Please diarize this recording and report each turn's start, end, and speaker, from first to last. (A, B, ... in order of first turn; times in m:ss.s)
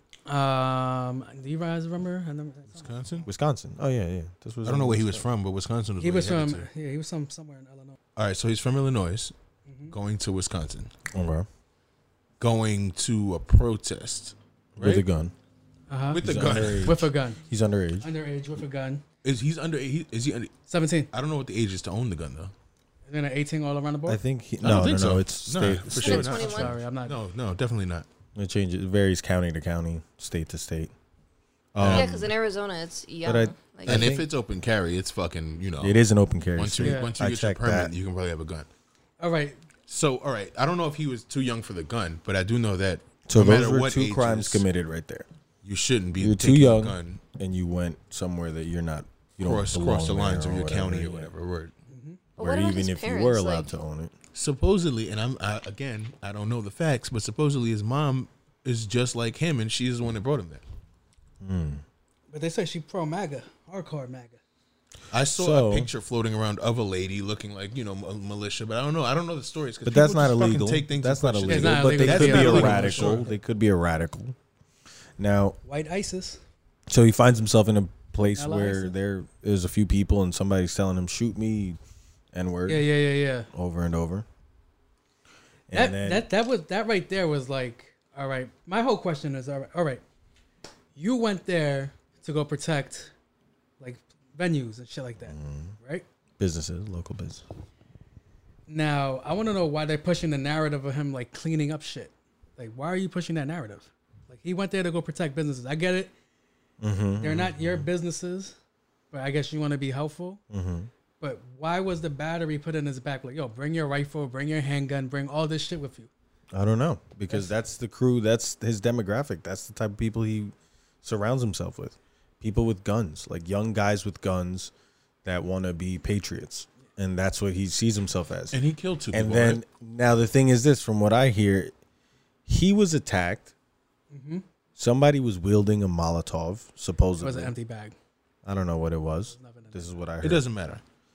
0:00.3-0:03.3 A
0:02.7-0:03.3 B
0:03.3-0:05.3 C
0:04.6-0:06.7 B
0:06.0-0:08.0 A
0:08.2-0:09.3 B
0:09.7-0:09.9 A
0:09.9-0:10.9 B
0:11.1-0:11.5 C
0:12.4-0:15.0 B
0:14.8-0:15.3 C
0:15.9-0:17.4 A
0:16.1-0:17.0 B
0:16.2-0:18.1 C
0:18.0-0:19.0 A
0:19.2-0:20.5 B
0:20.7-0:21.1 A
0:21.1-0:22.5 B
0:23.1-0:24.2 A
0:24.1-0:26.4 C
0:24.6-0:28.1 B
0:25.9-0:26.8 D
0:26.2-0:27.1 A
0:28.4-0:30.9 C
0:31.7-0:32.3 C
0:31.8-0:32.1 B
0:31.9-0:34.2 D
0:33.2-0:34.3 C
0:33.8-0:36.0 B
0:35.8-0:37.9 C
0:36.6-0:38.7 B
0:36.8-0:37.1 A
0:39.2-0:39.6 A
0:39.9-0:44.6 B
0:43.3-0:45.3 C
0:45.6-0:47.2 B
0:46.2-0:51.3 C
0:49.4-0:51.7 B
0:51.9-0:52.2 A
0:52.4-0:53.7 D
0:52.4-0:54.1 C
0:54.4-1:00.6 B
1:01.4-1:01.8 C
1:02.3-1:04.4 A
1:05.1-1:13.2 B
1:05.3-1:05.9 C
1:09.8-1:14.4 C
1:11.5-1:13.4 A
1:15.2-1:15.6 C
1:15.6-1:16.4 A
1:16.9-1:21.8 C
1:18.3-1:19.0 A
1:22.3-1:22.9 C
1:22.7-1:23.5 A
1:23.5-1:24.3 C
1:25.7-1:26.3 C
1:25.7-1:30.0 A
1:31.0-1:33.1 A
1:33.8-1:36.0 A
1:35.2-1:35.7 C
1:36.4-1:37.4 C
1:38.7-1:46.1 A
1:46.8-1:47.9 C
1:47.2-1:48.6 A
1:49.1-1:50.4 A
1:50.5-1:50.9 C
1:51.2-1:56.1 A
1:56.5-2:04.7 C
2:05.2-2:08.6 C
2:08.5-2:09.6 B
2:09.1-2:11.7 C
2:12.5-2:13.5 C
2:14.1-2:14.4 A
2:14.8-2:17.5 C
2:17.2-2:18.0 A
2:18.4-2:20.4 C
2:19.3-2:20.0 A
2:20.2-2:20.8 B